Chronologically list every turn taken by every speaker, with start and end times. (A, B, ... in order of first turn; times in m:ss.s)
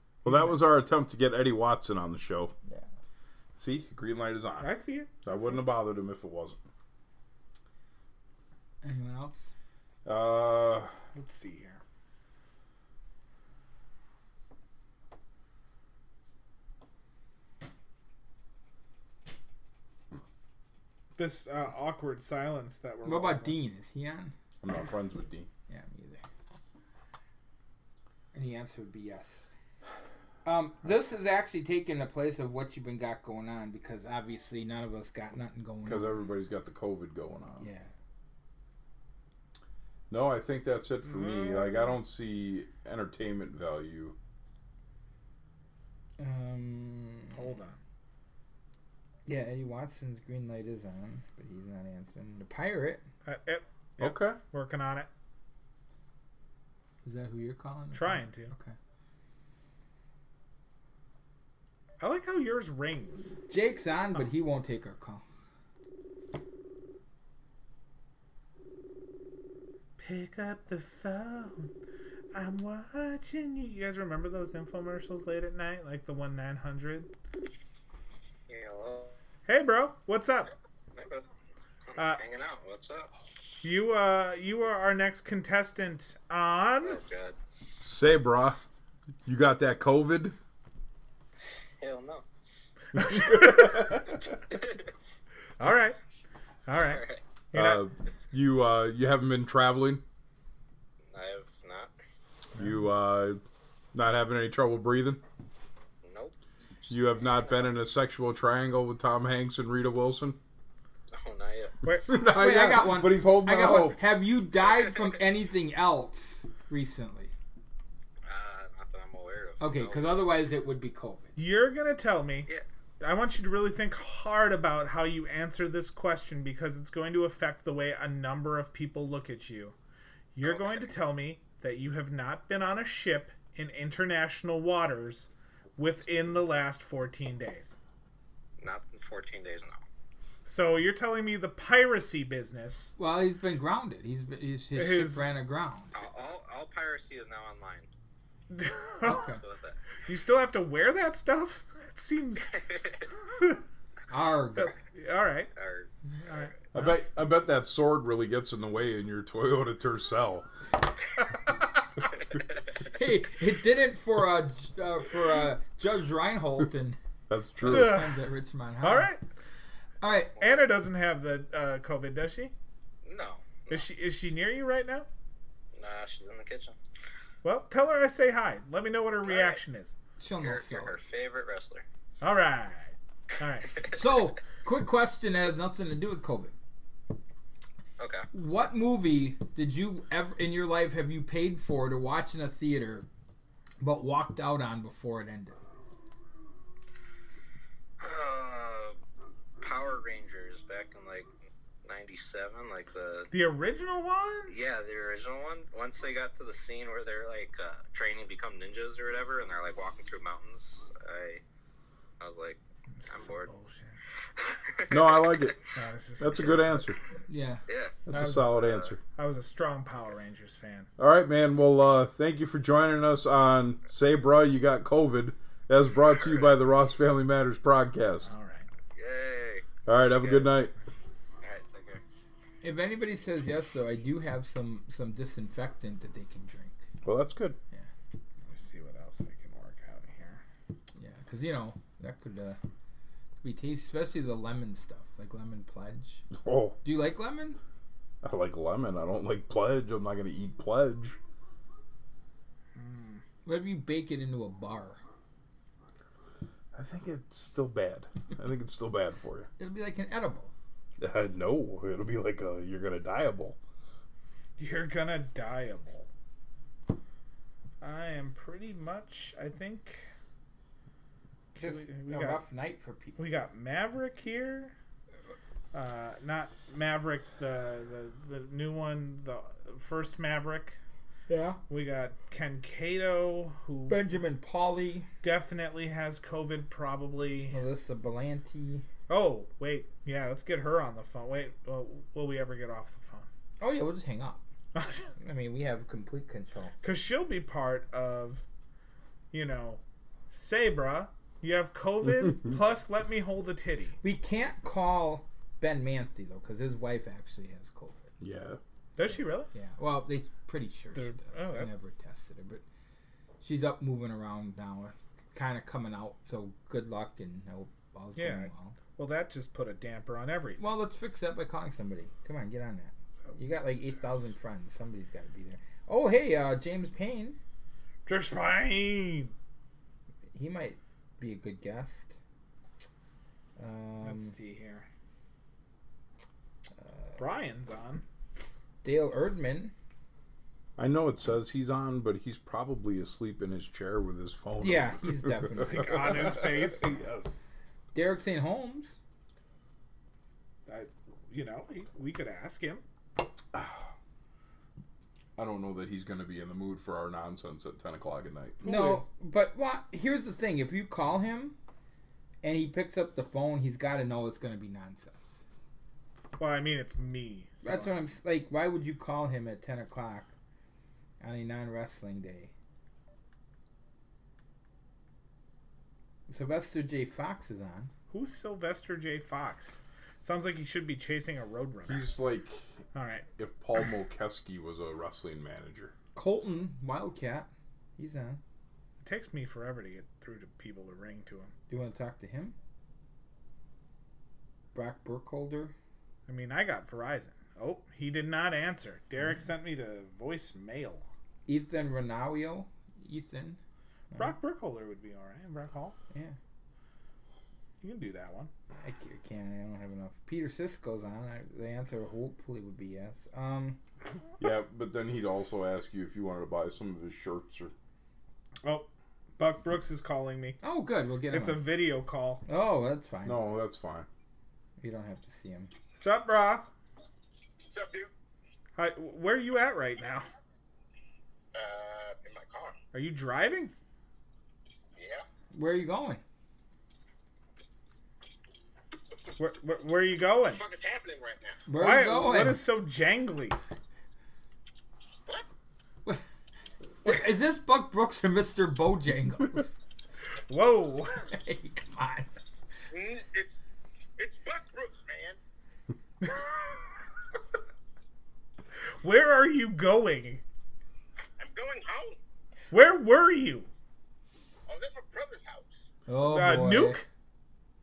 0:00.2-0:02.5 A
0:03.6-0:06.6 A
0:04.6-0:05.4 B
0:08.8-0:09.5 C
0:10.0-0:10.9 A
0:11.1-0:11.8 B
0:21.2-0:23.6 B
0:23.0-0:24.3 C
0:24.6-0:25.5 A
0:25.7-0:26.2 C
0:28.3-0:29.5 C
0:30.4-0:36.2 C
0:35.8-0:37.7 A
0:37.6-0:37.9 C
0:40.1-0:44.2 A
0:41.0-0:41.9 B
0:46.2-0:47.6 C
0:47.4-0:47.8 B
0:49.2-0:53.0 C
0:53.2-0:55.1 B
0:54.0-0:54.4 A
0:57.0-0:58.8 C
0:57.9-0:58.5 B
1:02.0-1:03.3 B
1:03.5-1:05.2 C
1:10.0-1:11.7 B
1:12.3-1:17.1 B
1:18.5-1:19.2 D
1:19.4-1:20.5 B
1:20.9-1:21.3 D
1:21.9-1:23.1 D
1:22.0-1:22.2 B
1:23.6-1:27.0 B
1:26.8-1:27.4 D
1:27.8-1:28.6 A
1:29.2-1:30.4 A
1:31.8-1:32.3 D
1:33.0-1:34.0 B
1:33.0-1:34.1 A
1:34.5-1:34.9 D
1:35.6-1:36.0 B
1:36.7-1:37.8 B
1:36.8-1:37.2 D
1:37.5-1:40.0 A
1:41.1-1:41.9 D
1:42.6-1:43.4 A
1:43.9-1:45.2 A
1:46.0-1:47.7 D
1:46.9-1:50.4 A
1:51.1-1:51.8 D
1:52.1-1:54.0 A
1:52.1-1:57.3 C
1:54.6-1:55.2 D
1:58.2-2:00.2 D
1:59.6-2:01.3 C
2:01.4-2:02.5 B
2:03.0-2:09.7 B
2:10.3-2:17.8 B
2:10.4-2:10.9 D
2:18.6-2:19.8 D
2:20.4-2:22.9 B
2:23.0-2:25.9 C
2:24.8-2:25.2 B
2:25.9-2:27.9 D
2:28.5-2:29.3 B
2:29.0-2:29.4 C
2:29.1-2:29.8 D
2:30.0-2:32.6 B
2:32.5-2:33.0 D
2:33.3-2:33.6 B
2:34.1-2:34.7 C
2:34.6-2:35.5 B
2:35.5-2:35.9 D
2:36.2-2:37.0 B
2:36.7-2:40.5 A
2:42.9-2:47.0 C
2:47.3-2:48.0 A
2:47.6-2:49.1 C
2:47.6-2:48.2 B
2:48.8-2:49.2 B
2:50.0-2:50.4 C
2:50.4-2:52.5 B
2:53.0-2:53.9 D
2:53.7-2:55.1 B
2:55.7-2:56.7 D
2:57.4-2:59.9 B
2:59.2-2:59.6 D
3:00.2-3:01.0 C
3:00.4-3:01.8 D
3:02.2-3:03.8 B
3:03.9-3:06.5 C
3:08.0-3:08.3 D
3:08.3-3:13.1 C
3:13.8-3:15.6 C
3:18.0-3:19.0 D
3:19.6-3:21.3 D
3:21.8-3:23.3 D
3:23.3-3:24.5 B
3:24.5-3:31.4 D
3:32.2-3:33.5 D
3:33.0-3:34.0 B
3:34.4-3:35.6 D
3:34.9-3:35.6 A
3:35.7-3:36.8 B
3:36.2-3:37.0 A
3:37.3-3:37.6 C
3:37.6-3:39.0 D
3:38.1-3:39.0 A
3:38.1-3:38.5 B
3:39.1-3:40.9 B
3:41.0-3:48.3 A
3:46.1-3:46.5 D
3:48.2-3:48.7 B
3:48.9-3:50.6 D
3:49.8-3:50.7 A
3:51.4-3:52.0 D
3:52.6-3:56.8 C
3:57.0-3:57.6 A
3:58.4-4:00.4 B
4:00.9-4:02.6 C
4:03.4-4:06.2 C
4:06.3-4:06.8 A
4:06.8-4:07.6 C
4:08.2-4:11.2 A
4:12.7-4:13.2 B
4:13.4-4:15.0 C
4:16.7-4:19.5 A
4:19.6-4:20.5 C
4:21.0-4:23.6 A
4:24.6-4:26.1 B
4:27.8-4:30.1 B
4:31.5-4:32.4 B
4:31.6-4:33.2 C
4:33.2-4:34.7 B
4:35.7-4:40.8 B
4:41.3-4:41.6 C
4:41.7-4:44.0 B
4:43.9-4:45.1 C
4:45.2-4:47.6 B
4:47.5-4:48.8 C
4:49.1-4:53.3 B
4:53.6-4:54.4 C
4:54.7-4:55.1 B
4:55.2-4:56.7 C
4:56.8-4:58.4 B
4:59.3-5:04.0 B
5:04.0-5:08.1 C
5:08.2-5:08.6 A
5:09.0-5:09.5 B
5:09.0-5:12.6 C
5:10.9-5:11.7 B
5:13.4-5:18.8 C
5:18.2-5:20.6 B
5:20.6-5:27.4 C
5:23.2-5:23.6 B
5:28.0-5:29.3 B
5:30.3-5:32.2 C
5:33.6-5:34.3 C
5:34.0-5:34.9 B
5:37.2-5:38.0 B
5:38.8-5:39.7 C
5:40.8-5:47.3 A
5:44.6-5:46.4 C
5:45.6-5:47.0 B
5:47.9-5:49.0 C
5:50.7-5:52.8 B
5:53.5-5:53.9 A
5:55.4-5:59.0 A
5:58.6-6:01.6 C
6:02.4-6:05.4 C
6:06.4-6:08.0 B
6:07.6-6:10.3 C
6:11.2-6:12.5 C
6:16.3-6:17.9 C
6:18.1-6:22.1 B
6:21.9-6:22.6 A
6:22.9-6:23.2 B
6:23.4-6:25.9 A
6:26.1-6:28.4 C
6:29.0-6:31.5 B
6:31.7-6:32.5 C
6:34.7-6:35.7 C
6:36.3-6:41.1 B
6:41.5-6:43.6 C
6:44.1-6:46.0 B
6:47.8-6:48.5 B
6:48.8-6:53.8 C
6:54.4-6:57.7 A
6:58.6-7:00.6 B
7:00.6-7:01.6 C
7:01.3-7:02.4 B
7:02.4-7:03.4 C
7:03.2-7:04.1 A
7:04.8-7:05.7 C
7:05.9-7:06.7 B
7:07.7-7:08.1 E
7:08.8-7:10.3 B
7:11.5-7:12.8 E
7:12.9-7:13.7 B
7:14.9-7:15.2 E
7:15.5-7:16.2 C
7:19.4-7:20.6 B
7:20.4-7:21.6 E
7:21.7-7:22.6 C
7:21.7-7:23.6 B
7:27.0-7:29.8 C
7:27.0-7:27.3 B
7:30.5-7:31.2 B
7:31.3-7:32.3 C
7:32.9-7:33.6 E
7:34.2-7:35.4 E
7:36.2-7:36.8 B
7:39.0-7:40.4 B
7:41.4-7:42.2 E
7:42.7-7:43.7 B
7:44.7-7:45.9 E
7:46.1-7:47.0 C
7:46.2-7:47.0 B